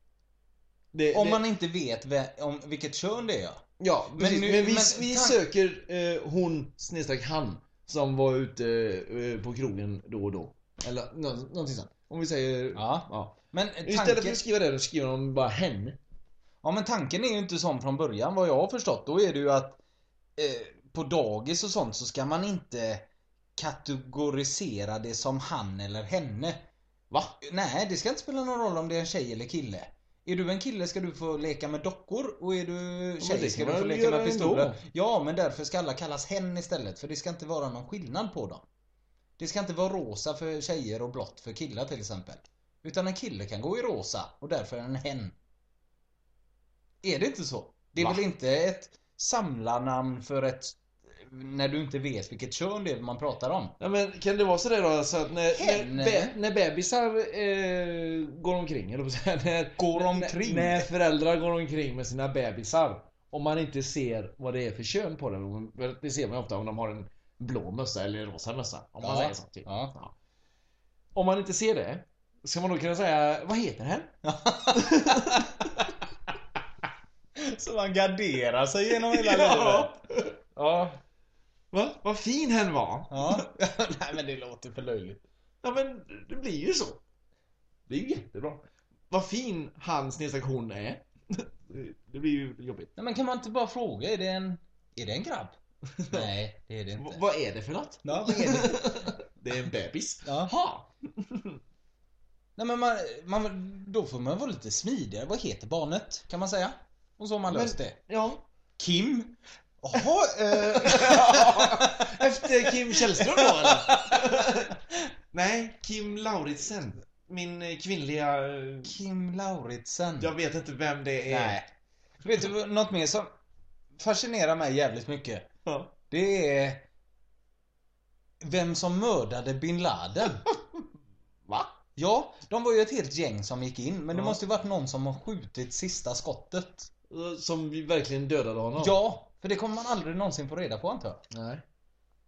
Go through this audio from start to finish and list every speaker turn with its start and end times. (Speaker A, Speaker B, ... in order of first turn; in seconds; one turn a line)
Speaker A: 0.9-1.4
Speaker B: 1.1-3.6
Speaker A: 3.8-16.0
Speaker B: 4.2-5.4
Speaker B: 12.7-14.4
Speaker B: 16.6-19.8
Speaker B: 20.4-26.6
Speaker B: 27.4-38.6
Speaker A: 33.2-34.8
Speaker B: 39.4-45.3
Speaker B: 47.0-53.7
Speaker A: 48.0-48.2
Speaker A: 53.8-70.1
Speaker B: 55.5-56.4
Speaker B: 59.8-60.9
Speaker B: 69.0-69.9
Speaker A: 71.1-74.1
Speaker B: 74.2-75.7
Speaker A: 74.7-75.7
Speaker B: 77.4-79.9
Speaker A: 79.1-80.3
Speaker B: 80.5-81.0
Speaker A: 81.7-83.5
Speaker B: 83.1-85.2
Speaker A: 85.6-87.0
Speaker A: 87.9-92.9
Speaker B: 93.0-95.5
Speaker A: 96.0-96.3
Speaker B: 96.1-97.2
Speaker A: 97.0-101.6
Speaker B: 98.0-98.9
Speaker B: 100.2-100.5
Speaker B: 102.6-108.0
Speaker A: 107.5-108.4
Speaker B: 108.8-112.1
Speaker A: 110.5-114.7
Speaker B: 112.7-114.2
Speaker A: 115.3-119.0
Speaker B: 118.8-120.3
Speaker A: 120.2-121.6
Speaker B: 121.2-121.7
Speaker B: 122.2-123.3
Speaker B: 124.0-125.5
Speaker A: 125.7-125.9
Speaker B: 126.1-126.8
Speaker B: 128.4-130.4
Speaker B: 131.9-136.9
Speaker A: 134.1-134.4
Speaker A: 137.1-138.9
Speaker B: 138.8-141.2
Speaker A: 141.3-141.6